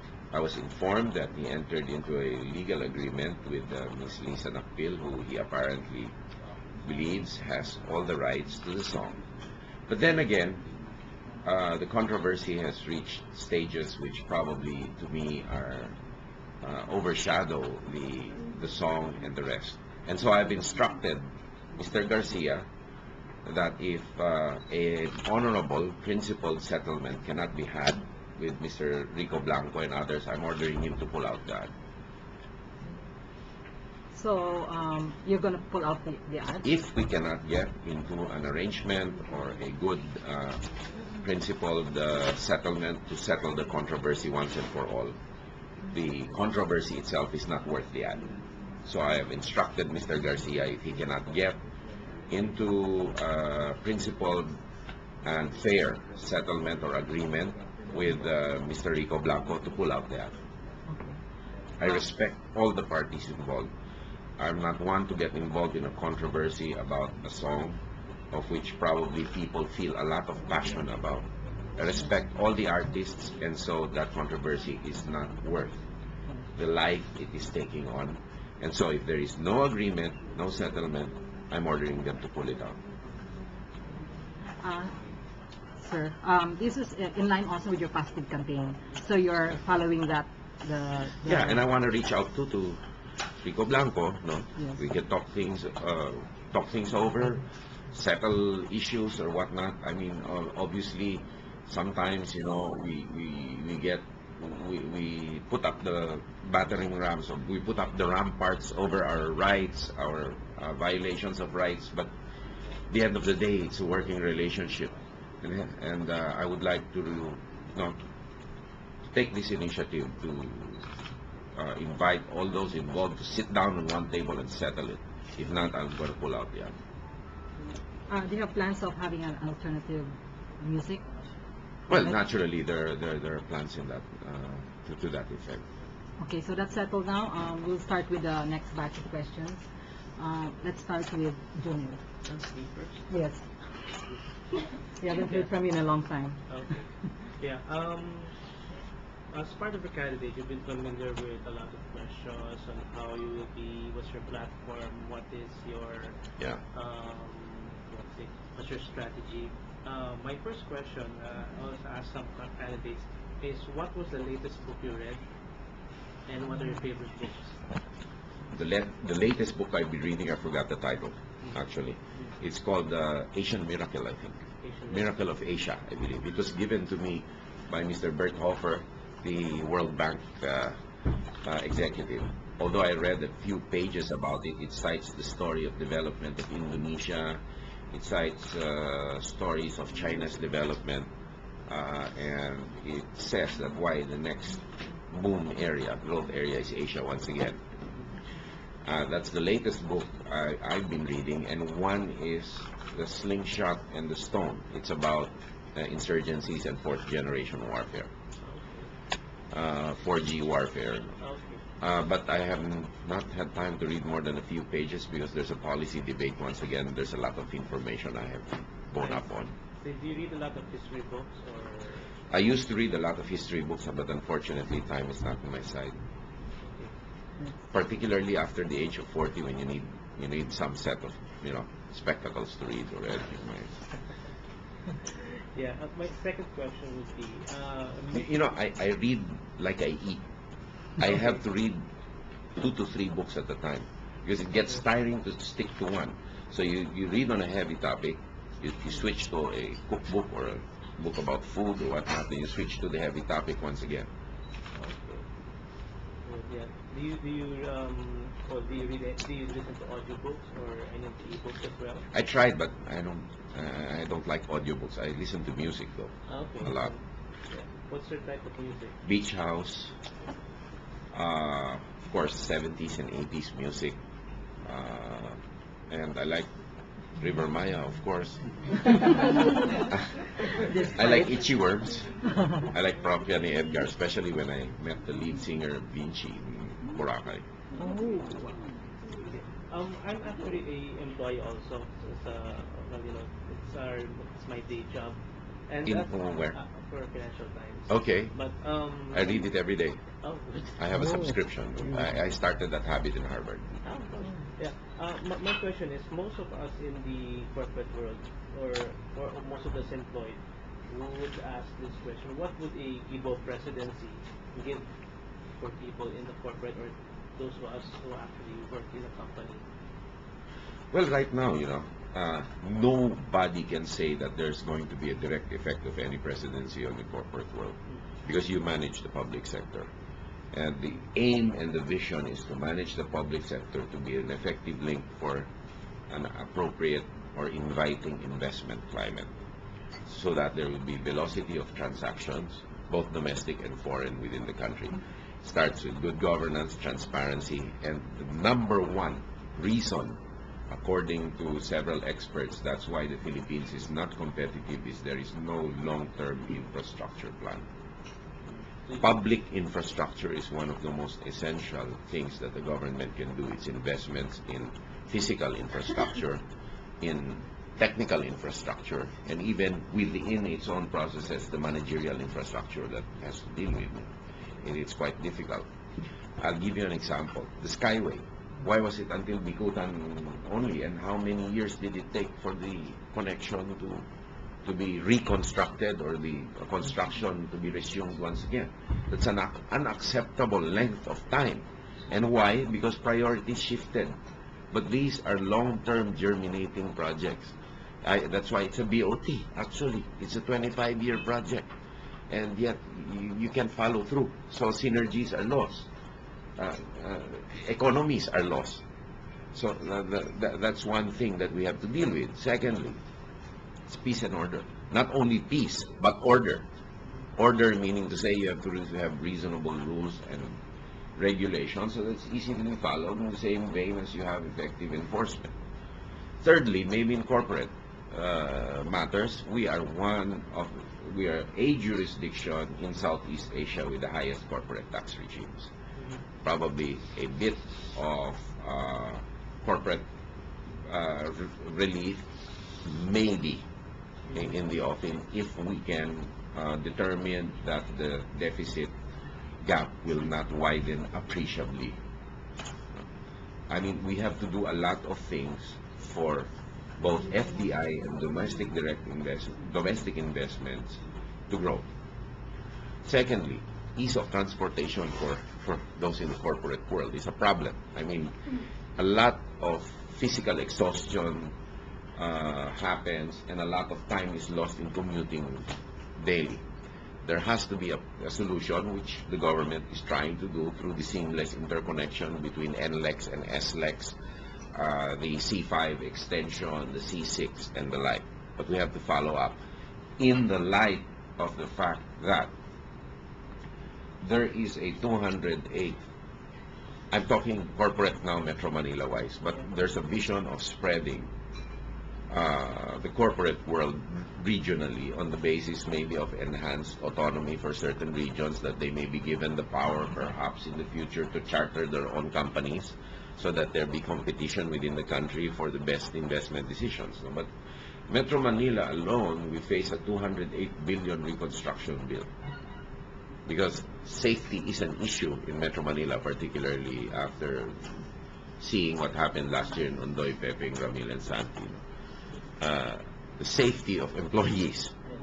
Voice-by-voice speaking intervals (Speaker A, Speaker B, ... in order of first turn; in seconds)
Speaker A: 0.3-6.2, 6.8-9.2, 9.9-10.7, 11.4-16.0, 16.6-22.7, 23.4-31.7, 36.6-45.2, 45.9-48.3, 48.8-51.6, 52.3-54.6, 55.2-60.3, 61.8-63.7, 64.4-67.8, 68.3-75.8, 76.5-82.8, 91.2-92.8, 93.4-112.1, 112.9-118.0, 119.1-120.9, 121.5-126.8, 131.9-135.6, 168.5-180.8, 181.4-191.1, 191.7-197.6, 198.8-208.1, 209.5-211.2, 211.8-219.5, 222.3-226.0, 227.7-233.8, 238.1-240.2, 241.0-241.8, 242.6-254.1, 262.1-266.9, 269.0-269.9, 271.1-274.0, 274.6-276.5, 277.1-279.1, 279.9-280.1, 280.8-287.4, 295.8-296.6, 297.9-298.3, 299.1-300.0, 300.7-303.8, 320.9-329.9, 330.5-335.5, 336.1-339.3, 340.1-357.7, 359.0-366.4, 367.0-375.7, 376.4-384.1, 384.6-394.1, 394.7-401.7, 402.3-405.9, 406.6-408.8, 409.5-413.0, 413.9-416.6, 417.3-420.6, 421.1-425.5, 426.4-435.7, 436.4-440.1, 440.8-442.2, 442.8-443.6, 444.3-448.9, 449.6-452.0, 453.7-461.9, 463.1-471.6, 472.1-476.6, 477.2-484.1, 484.7-489.6, 490.2-492.5, 494.2-496.0, 497.1-501.3, 502.3-517.5, 518.1-522.3, 523.5-528.1, 528.6-531.8, 532.6-535.0
Speaker B: 34.1-36.7, 60.9-61.2, 84.6-85.0, 85.8-91.6, 128.1-131.1, 136.2-142.0, 143.1-143.4, 145.0-147.1, 280.7-281.4, 287.7-288.6, 300.9-301.3
Speaker C: 142.2-143.1, 145.1-145.5, 146.5-148.3, 149.3-156.2, 156.7-165.2, 166.3-167.6, 174.6-175.1, 208.4-208.9, 211.2-211.6, 219.0-219.2, 219.8-222.1, 226.6-226.9, 235.1-238.3, 254.8-255.2, 256.2-262.1, 266.3-268.9, 289.3-299.5, 300.2-300.8, 303.8-314.9, 315.6-319.6, 358.5-359.1, 436.0-436.2